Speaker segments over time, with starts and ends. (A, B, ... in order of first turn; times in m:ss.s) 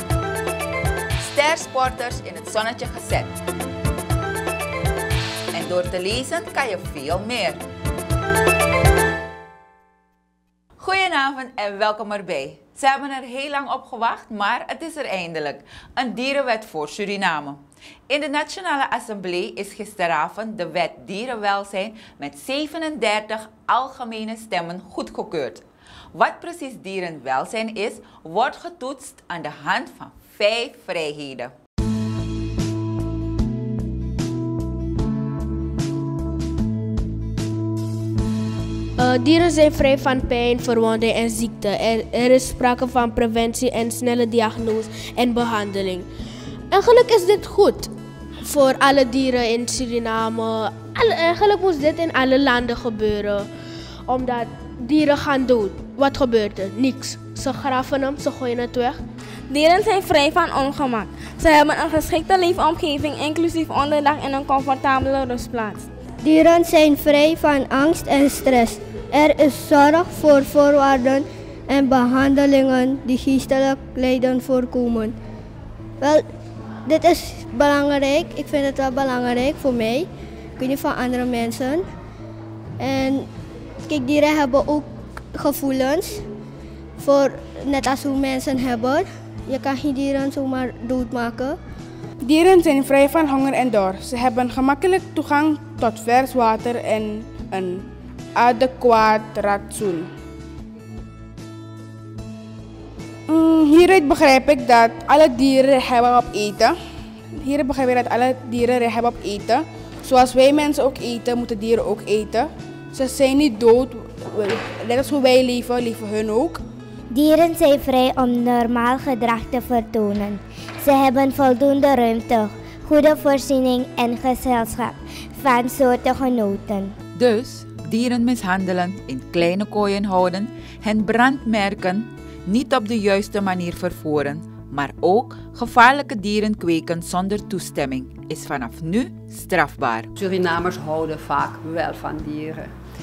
0:01.2-0:03.4 A
0:05.5-0:07.6 A
0:10.8-0:31.5 A
0:39.0-0:46.1 B
0:46.7-0:47.9 B
0:48.4-0:53.5 B
0:54.1-0:59.0 B
0:59.5-1:05.9 C
1:06.2-1:15.1 D
1:16.9-1:20.1 D
1:20.6-1:21.8 D
1:22.8-1:23.3 D
1:23.9-1:26.2 D
1:27.0-1:31.6 D
1:32.2-1:40.1 E
1:43.3-1:46.7 E
1:47.4-1:56.6 E
1:57.1-2:07.0 F
2:07.2-2:20.1 A
2:20.2-2:22.7 G